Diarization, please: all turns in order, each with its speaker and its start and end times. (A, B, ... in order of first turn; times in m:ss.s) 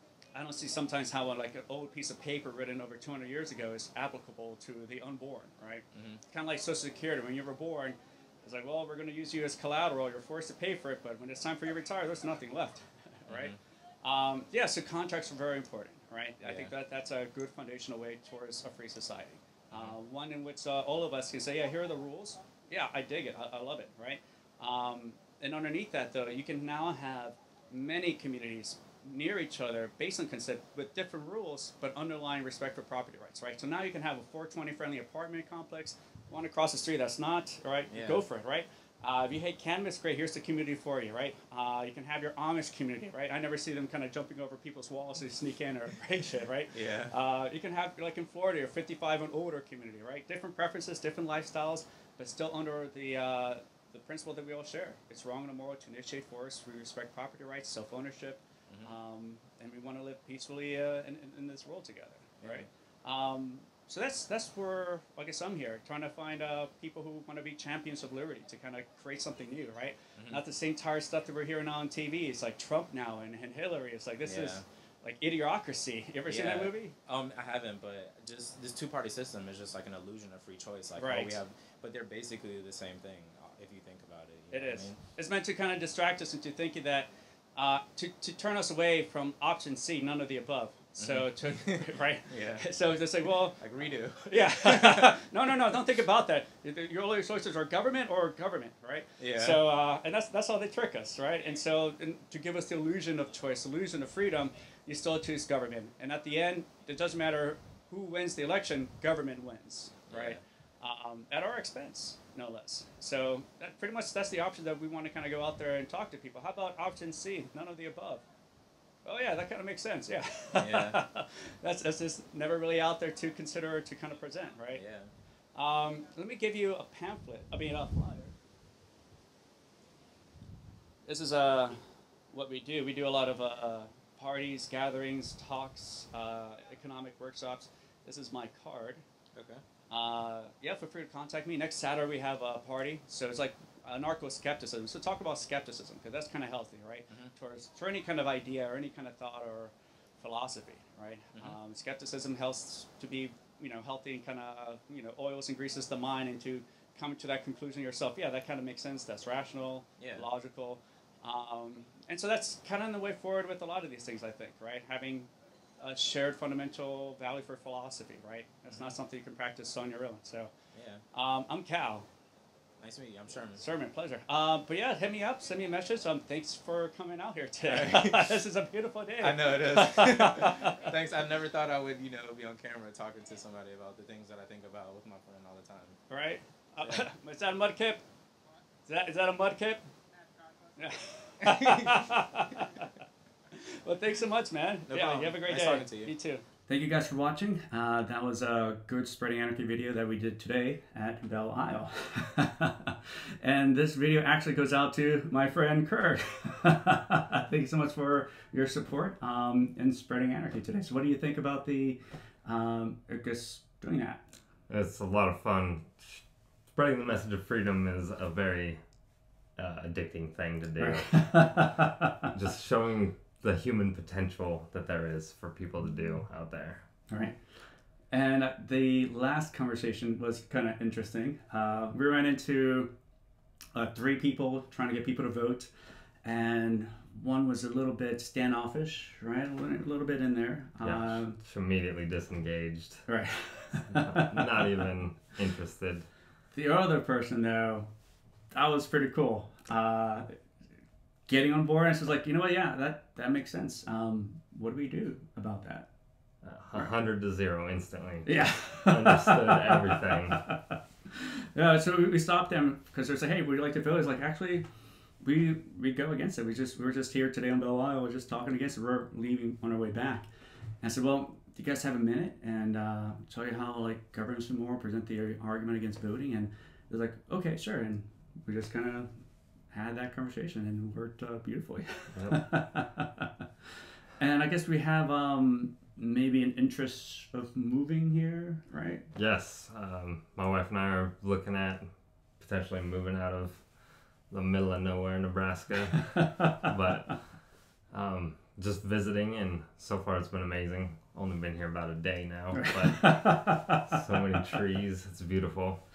0:00.3-1:17.0 A
0:05.9-0:06.2 B
0:13.3-0:13.6 B
0:16.4-0:16.7 B
0:37.9-0:38.3 B
0:46.7-0:47.2 B
0:58.7-0:59.0 B
1:02.4-1:02.7 B
1:10.2-1:10.4 B
1:14.2-1:14.6 B
1:16.3-1:25.0 B
1:21.0-1:21.4 A
1:24.5-1:33.6 A
1:31.0-1:32.7 B
1:33.6-1:35.2 B
1:34.3-1:58.2 A
1:39.2-1:39.6 B
1:50.1-1:50.4 B
1:59.0-2:04.8 A
2:00.6-2:01.0 B
2:04.7-2:05.1 B
2:05.6-2:08.4 A
2:11.1-2:11.8 A
2:12.3-2:19.0 A
2:19.4-2:19.6 B
2:19.9-2:50.5 A
2:40.0-2:40.3 B
2:48.7-2:49.0 B
2:50.7-2:51.0 B
2:51.1-2:52.1 A
2:52.8-2:53.6 B
2:53.6-3:00.9 A
2:57.7-2:58.4 B
2:59.2-3:06.0 B
3:06.1-3:08.0 A
3:08.8-3:09.9 A
3:10.7-3:12.9 A
3:11.4-3:12.0 B
3:13.5-3:34.2 A
3:14.9-3:16.1 B
3:34.7-3:38.8 C
3:39.6-3:41.7 C
3:40.8-3:42.3 A
3:42.3-3:46.8 C
3:47.1-3:47.4 A
3:48.1-3:52.9 A
3:53.7-3:55.7 A
3:56.2-4:01.4 A
4:00.8-4:03.0 C
4:03.1-4:04.5 A
4:03.9-4:06.1 C
4:06.5-4:07.9 A
4:08.5-4:10.3 A
4:11.3-4:15.9 A
4:16.4-4:20.4 C
4:18.2-4:24.6 A
4:25.2-4:30.3 A
4:30.8-4:39.1 A
4:39.7-4:43.3 A
4:42.2-4:42.4 C
4:44.2-4:49.1 A
4:49.1-5:05.8 C
5:02.5-5:03.9 A